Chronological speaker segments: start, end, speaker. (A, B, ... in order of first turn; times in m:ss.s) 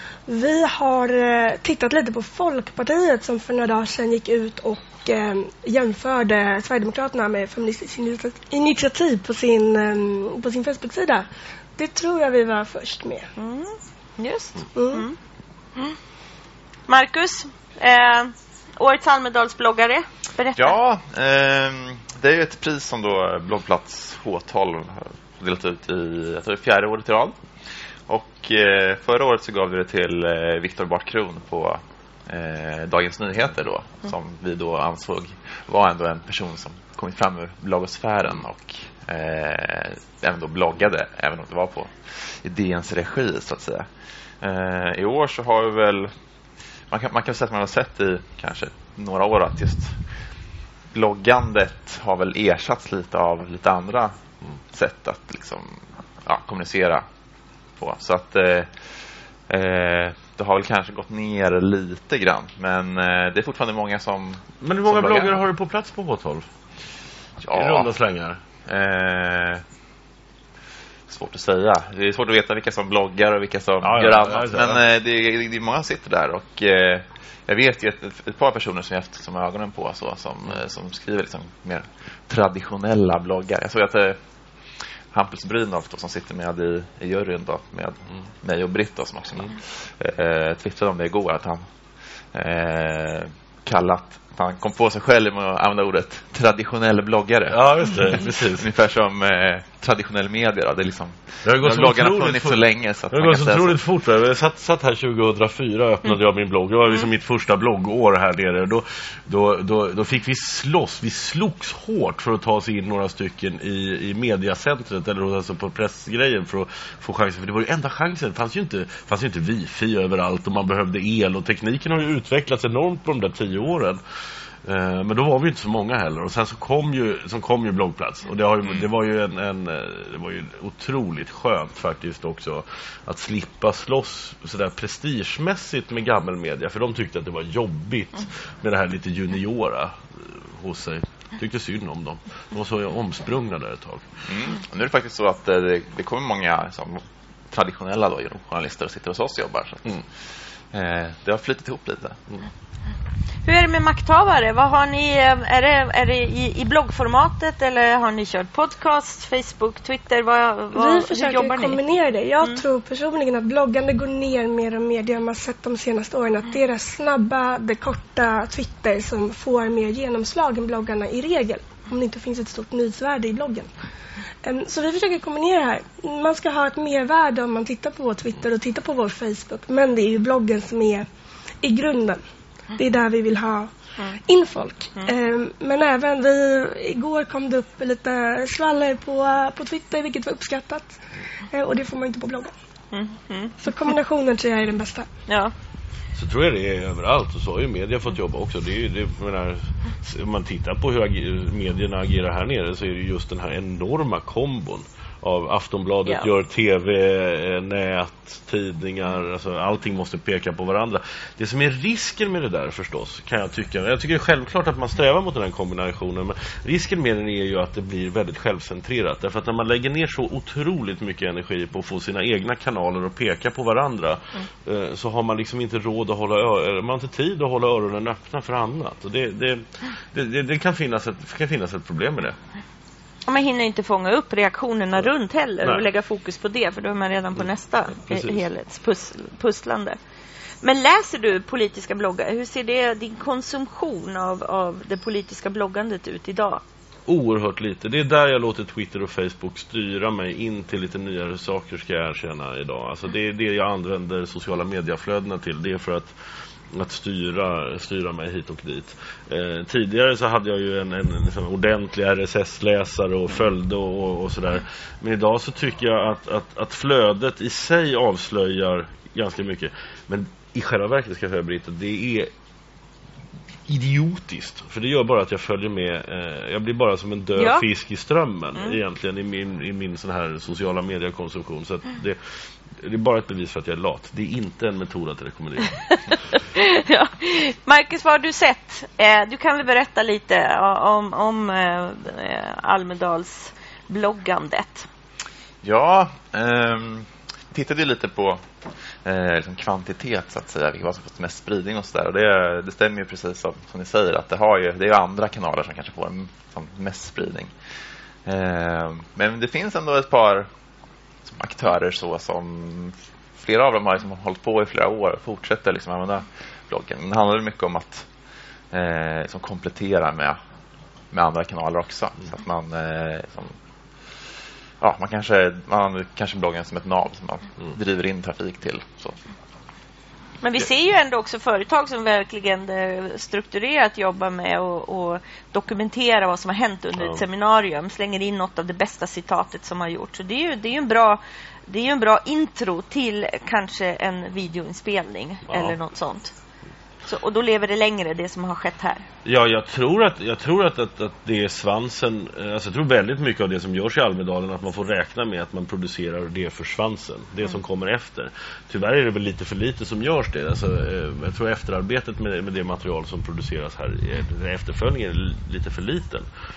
0:00.3-0:13.3 A
0:13.4-0:15.2 B
0:14.7-0:15.1 A
0:16.9-0:20.7 B
0:20.6-0:27.4 C
0:28.1-0:43.9 C
0:44.4-0:46.1 C
0:46.9-0:50.0 C
0:50.9-0:54.2 C
0:54.7-0:57.0 C
0:57.8-0:58.8 C
0:59.5-1:05.4 C
1:04.6-1:06.4 D
1:07.4-1:07.9 C
1:07.5-1:08.4 D
1:08.7-1:09.6 C
1:11.1-1:24.2 C
1:13.8-1:14.8 D
1:25.1-1:31.6 C
1:32.3-1:43.8 C
1:37.5-1:38.7 D
1:41.4-2:04.0 D
2:04.6-2:20.0 D
2:20.6-2:24.0 D
2:24.3-2:30.0 C
2:30.7-2:32.2 C
2:33.4-2:41.8 B
2:40.7-2:53.7 A
2:54.4-3:01.1 A
3:01.6-3:02.2 A
3:02.8-3:03.7 A
3:04.3-3:10.9 A
3:11.5-3:12.5 A
3:12.9-3:13.6 B
3:13.6-3:15.1 A
3:15.3-3:15.5 B
3:16.2-3:52.4 D
3:53.3-4:00.0 B
3:58.1-3:58.4 D
4:00.6-4:06.6 B
4:07.1-4:16.1 D
4:16.7-4:32.3 D
4:33.7-4:42.2 D
4:37.4-4:37.6 B
4:42.8-4:45.7 D
4:45.9-4:54.9 B
4:55.6-4:58.5 C
4:59.0-5:07.5 C
5:08.3-5:10.5 C
5:11.2-5:18.1 C
5:18.7-5:20.4 C
5:21.1-5:23.6 C
5:24.8-5:29.2 C
5:30.4-5:46.3 B
5:37.0-5:37.2 D
5:45.5-5:45.8 D
5:47.1-5:49.0 B
5:49.2-6:06.3 D